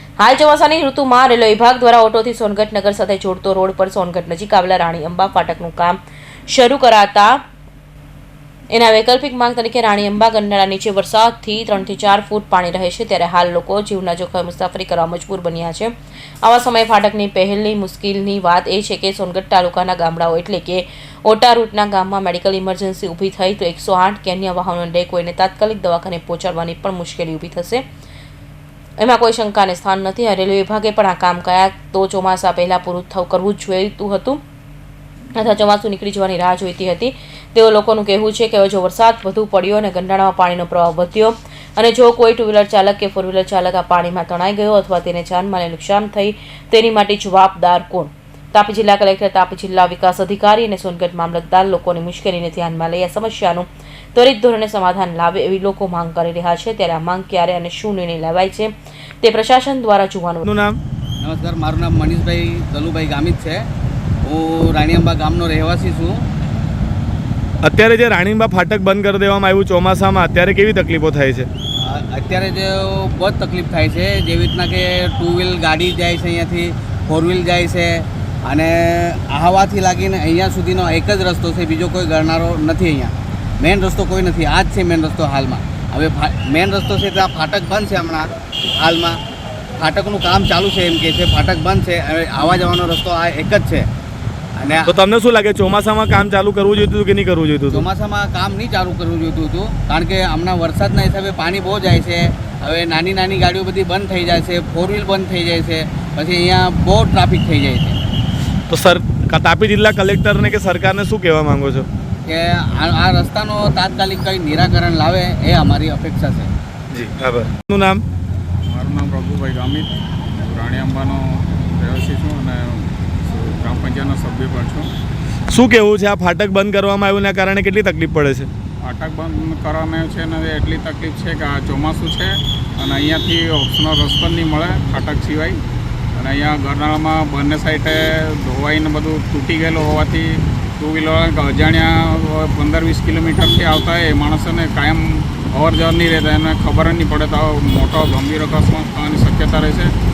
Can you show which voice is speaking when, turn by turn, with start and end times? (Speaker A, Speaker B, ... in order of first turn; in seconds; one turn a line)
Speaker A: 0.2-7.4
Speaker A: 8.7-27.8
Speaker A: 29.0-34.4
Speaker A: 35.4-60.5
Speaker B: 60.4-60.8
Speaker C: 61.2-63.7
Speaker C: 64.2-66.2
Speaker B: 67.6-71.5
Speaker C: 71.8-89.2
Speaker C: 89.8-93.9
Speaker C: 94.6-94.9
Speaker B: 94.9-97.9
Speaker C: 97.7-108.0
Speaker B: 108.7-111.9
Speaker C: 112.3-116.5
Speaker B: 116.9-118.0
Speaker D: 118.7-124.9
Speaker B: 125.5-128.5
Speaker D: 128.8-135.6
Speaker D: 136.2-149.9